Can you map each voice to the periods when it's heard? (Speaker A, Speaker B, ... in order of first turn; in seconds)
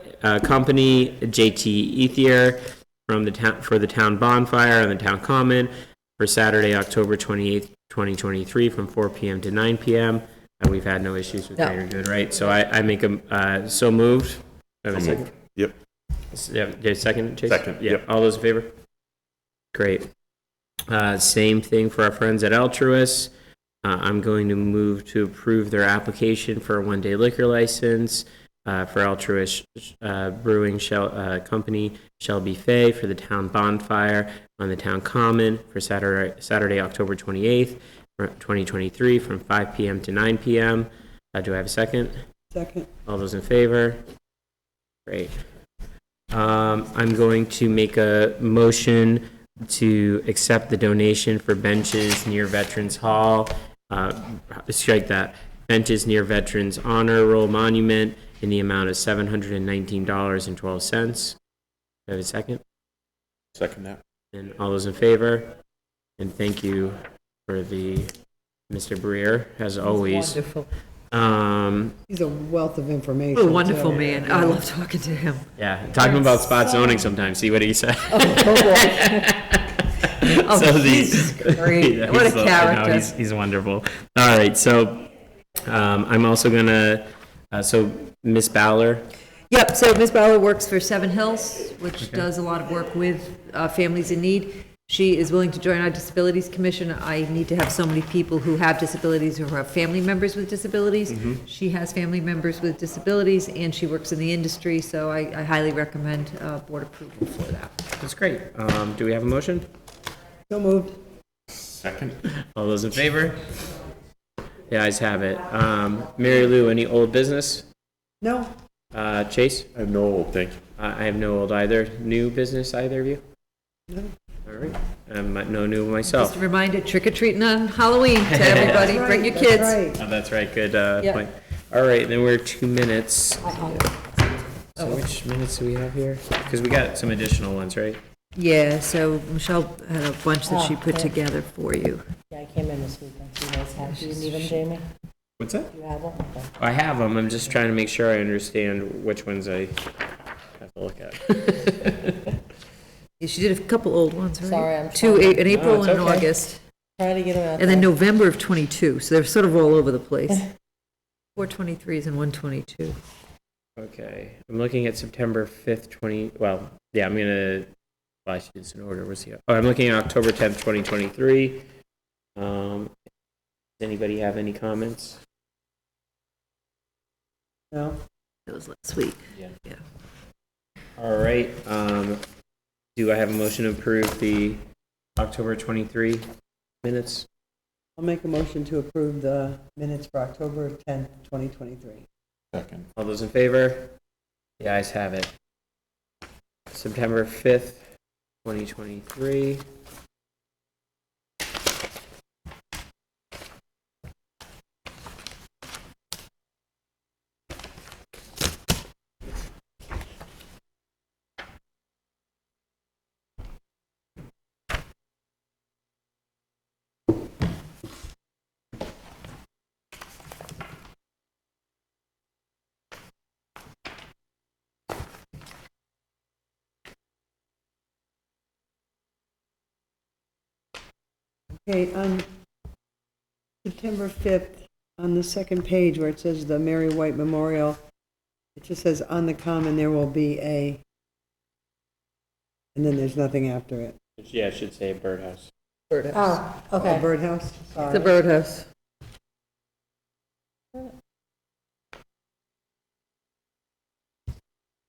Speaker A: 0.2-15.3, 16.3-18.7, 19.7-20.1, 20.9-23.3, 23.8-42.1, 43.0-44.0, 45.0-45.3, 46.3-61.4, 62.1-62.6, 64.3-65.5, 66.2-68.1, 68.7-70.4, 71.1-71.9, 75.6-85.0, 85.6-89.0, 92.0-92.2, 101.1-101.4, 108.0-109.7, 112.5-113.5, 114.7-117.7, 118.9-119.7, 120.8-123.2, 124.5-126.4, 128.3-129.0, 130.0-133.9, 134.7-138.0, 145.4-145.7, 146.6-149.8, 150.6-152.3, 155.4-156.0, 163.8-167.7, 168.2-171.6, 172.3-172.9, 173.8-175.2, 181.0-182.2, 182.9-184.6, 185.2-186.3, 186.8-187.3, 192.9-193.9, 194.6-195.3, 196.7-197.9, 198.4-199.6, 244.2-245.5
Speaker B: 14.9-15.7, 17.5-18.0, 63.5-64.0, 111.8-112.2, 119.7-120.6, 192.5-192.9
Speaker C: 42.5-42.9, 72.1-74.6, 110.5-111.0, 118.2-118.5, 128.6-130.0, 177.7-178.0, 188.0-192.1, 231.6-232.2, 233.6-237.8, 238.6-240.8, 242.7-243.9, 246.8-248.1
Speaker D: 69.8-70.7, 73.3-75.5, 76.0-77.0, 78.1-79.3, 80.2-83.1, 89.5-107.8, 126.1-129.8, 138.3-142.1, 143.8-144.6, 153.2-156.6, 157.6-160.4, 161.3-163.0, 178.5-179.8, 245.9-246.4, 247.9-248.7
Speaker E: 133.5-133.9, 140.4-141.1, 142.3-144.8, 145.7-146.5, 154.4-156.3, 157.0-157.9, 246.1-247.0